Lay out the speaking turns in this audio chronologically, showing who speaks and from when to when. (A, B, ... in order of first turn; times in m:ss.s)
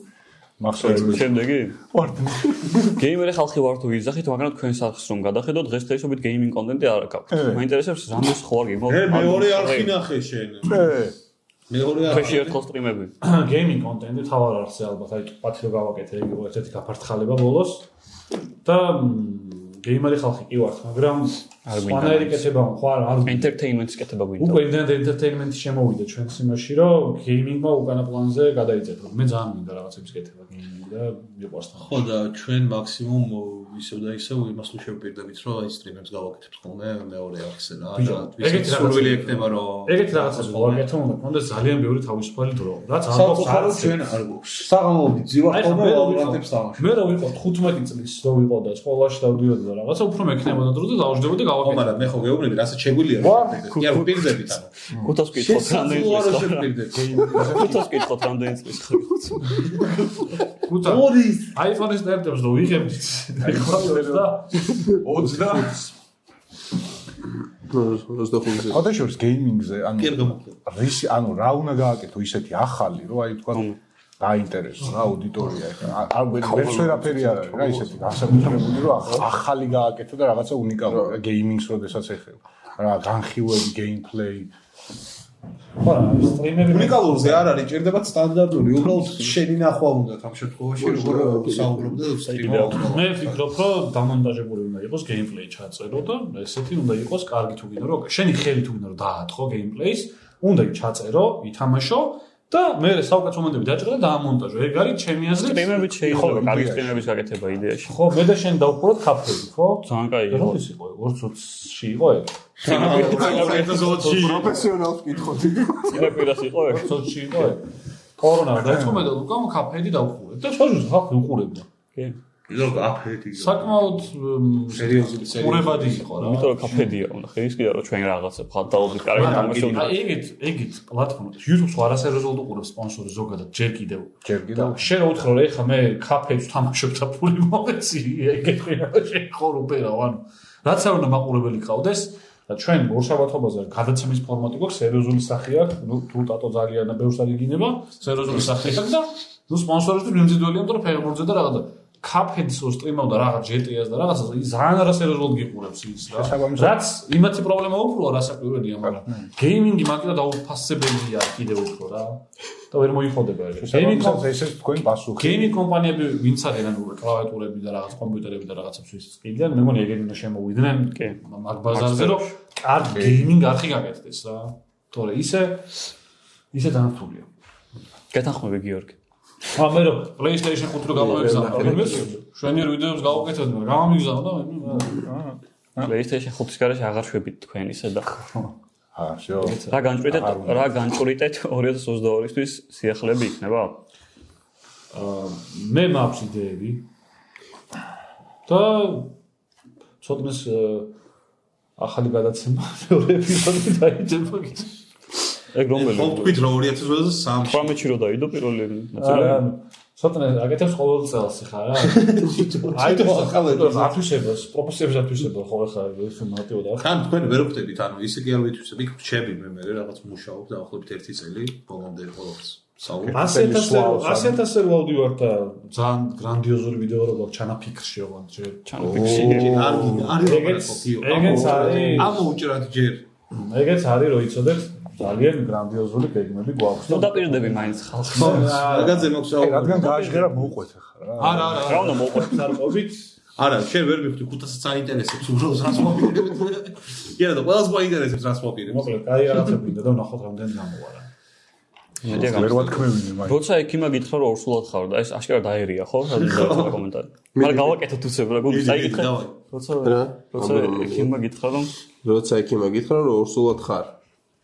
0:00.6-0:02.8 A
0:00.8-0:01.8 B
0:02.9-0:09.9 B
0:07.3-0:07.6 A
0:08.9-0:10.9 C
0:10.6-0:11.1 A
0:11.7-0:12.6 C
0:12.0-0:13.1 B
0:13.2-0:17.9 D
0:18.6-0:23.5 D
0:21.6-0:22.5 B
0:23.2-0:24.7 B
0:24.4-0:32.1 D
0:31.8-0:40.9 C
0:37.9-0:44.0 D
0:43.1-0:47.2 C
0:45.5-0:52.3 D
0:51.6-0:54.7 C
0:53.2-0:53.7 D
0:53.7-0:56.7 B
0:55.3-0:57.7 C
0:56.9-0:57.9 A
0:57.4-0:59.7 B
0:59.7-0:59.9 C
1:00.6-1:05.0 D
1:00.8-1:01.6 C
1:03.4-1:05.9 A
1:07.7-1:08.8 E
1:08.7-1:13.7 A
1:10.0-1:10.6 C
1:13.5-1:13.8 B
1:14.2-1:24.5 A
1:16.4-1:18.0 E
1:20.9-1:21.1 E
1:25.8-1:27.5 D
1:26.7-1:33.4 C
1:30.8-1:32.0 E
1:32.2-1:32.9 B
1:32.8-1:45.8 D
1:45.3-1:48.0 B
1:46.0-1:47.2 A
1:47.9-1:54.5 D
1:49.8-1:50.6 B
1:52.6-1:54.6 C
1:52.6-1:54.0 B
1:53.3-1:56.2 E
1:55.9-1:57.2 B
1:56.6-1:57.7 D
1:58.2-2:01.7 D
2:02.5-2:04.1 C
2:03.3-2:06.7 D
2:04.7-2:06.0 C
2:06.2-2:10.0 B
2:09.0-2:10.0 C
2:09.1-2:44.3 D
2:14.2-2:14.9 A
2:36.1-2:36.8 A
2:38.9-2:39.3 A
2:43.6-2:45.6 A
2:45.2-2:55.7 D
2:50.9-2:51.2 B
2:51.7-2:52.3 B
2:52.9-2:53.3 A
2:56.5-2:57.3 D
2:58.1-2:59.0 B
2:59.5-3:05.1 D
3:00.9-3:02.2 E
3:04.9-3:05.9 A
3:05.8-3:08.2 B
3:08.9-3:10.7 A
3:09.4-3:09.8 D
3:09.7-3:13.8 B
3:14.9-3:16.9 D
3:18.4-3:19.1 D
3:20.0-3:20.9 D
3:21.8-3:24.7 D
3:25.5-3:26.4 B
3:25.7-3:27.8 C
3:27.4-3:29.5 B
3:29.0-3:36.9 D
3:31.8-3:34.0 C
3:36.8-3:43.2 C
3:43.0-3:44.4 A
3:43.1-3:49.5 D
3:48.6-3:49.8 B
3:48.8-3:50.1 A
3:48.9-3:53.1 C
3:50.1-3:52.3 D
3:51.7-3:52.0 E
3:53.3-3:59.1 D
3:56.8-3:58.6 B
3:58.1-4:00.2 C
3:59.4-4:01.7 A
4:01.2-4:03.1 D
4:01.6-4:02.5 B
4:03.4-4:08.9 C
4:08.6-4:11.1 D
4:12.0-4:21.7 B
4:12.0-4:13.4 A
4:16.2-4:16.8 C
4:17.3-4:17.8 E
4:18.5-4:19.3 C
4:19.8-4:21.2 E
4:22.0-4:23.9 E